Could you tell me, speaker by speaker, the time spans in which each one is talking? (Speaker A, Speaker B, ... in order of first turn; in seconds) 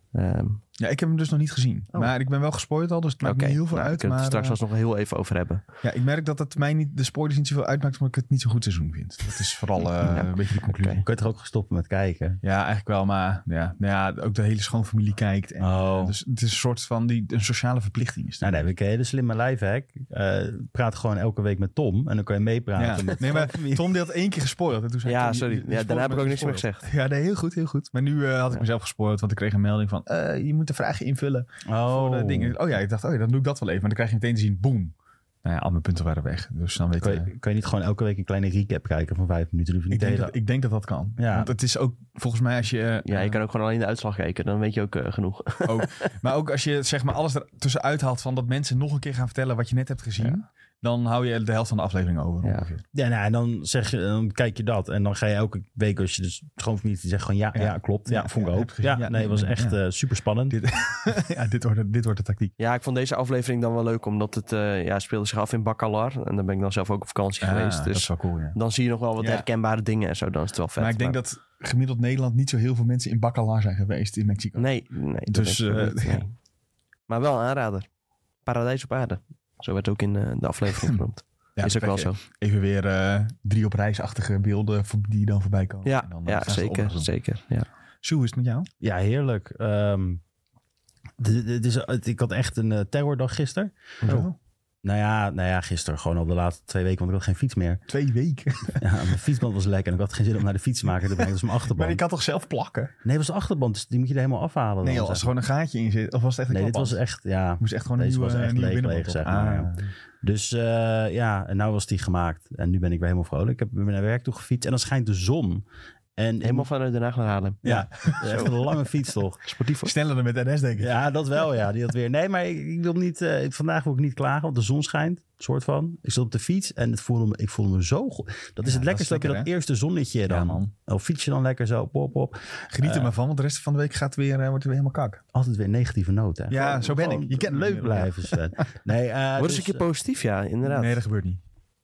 Speaker A: 0.1-0.6, 3.2-5.6, 10.0-11.0, 25.1-26.9, 43.0-46.1, 62.6-71.2, 74.6-76.3, 77.1-77.9, 78.4-82.2, 85.8-87.7, 116.4-118.8, 119.4-119.9, 139.4-141.0
Speaker B: 0.8-4.6, 5.8-11.0, 12.4-18.6, 22.8-37.3, 39.9-43.4, 45.6-52.8, 57.5-59.8, 60.5-62.5, 67.4-68.5, 69.2-69.5, 70.8-74.7, 75.3-76.2, 81.6-87.1, 88.0-88.7, 94.0-94.3, 97.9-98.8, 101.7-102.9, 104.8-107.0, 107.6-109.9, 117.7-118.4, 119.8-121.0, 128.6-129.5, 130.3-130.7, 132.7-135.2, 136.5-138.6, 140.6-141.4
Speaker C: 11.0-12.4, 15.6-16.1, 18.4-23.9, 31.7-32.6, 37.0-40.3, 41.2-41.5, 52.9-60.5, 88.8-90.2, 91.2-94.3, 94.8-97.8, 98.8-102.0, 103.0-105.3, 106.5-115.6, 116.2-116.7, 117.6-119.4, 120.8-133.1, 135.3-139.8